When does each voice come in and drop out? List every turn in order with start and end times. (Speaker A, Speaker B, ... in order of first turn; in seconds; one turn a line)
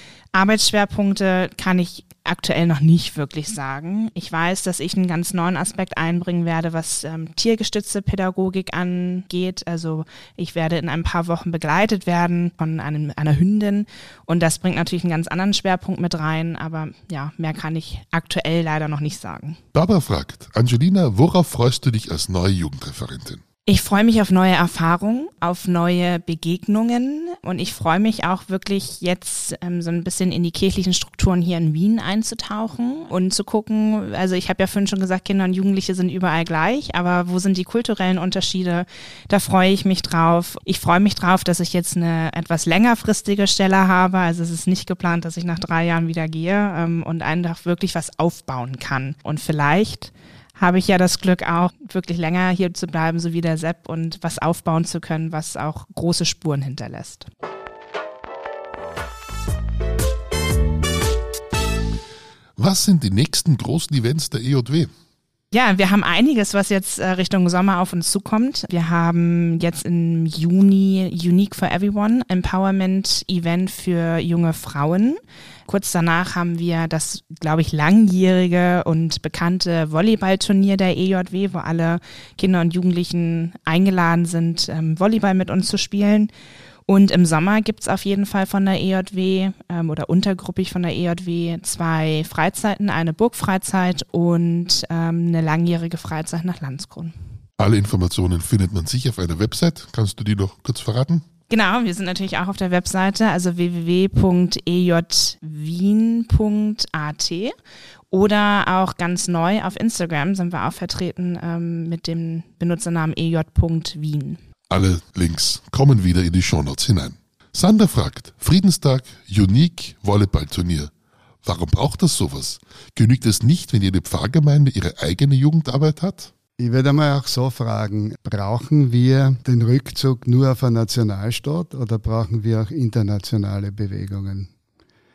Speaker A: 0.3-19.6
Speaker B: 19.7-23.4
Speaker A: 23.7-57.3
Speaker B: 62.6-64.9
Speaker A: 65.5-86.3
Speaker A: 86.9-97.1
Speaker B: 97.6-101.2
Speaker A: 101.5-107.5
Speaker A: 108.1-114.4
Speaker B: 114.7-120.9
Speaker B: 121.4-126.3
Speaker C: 126.6-134.5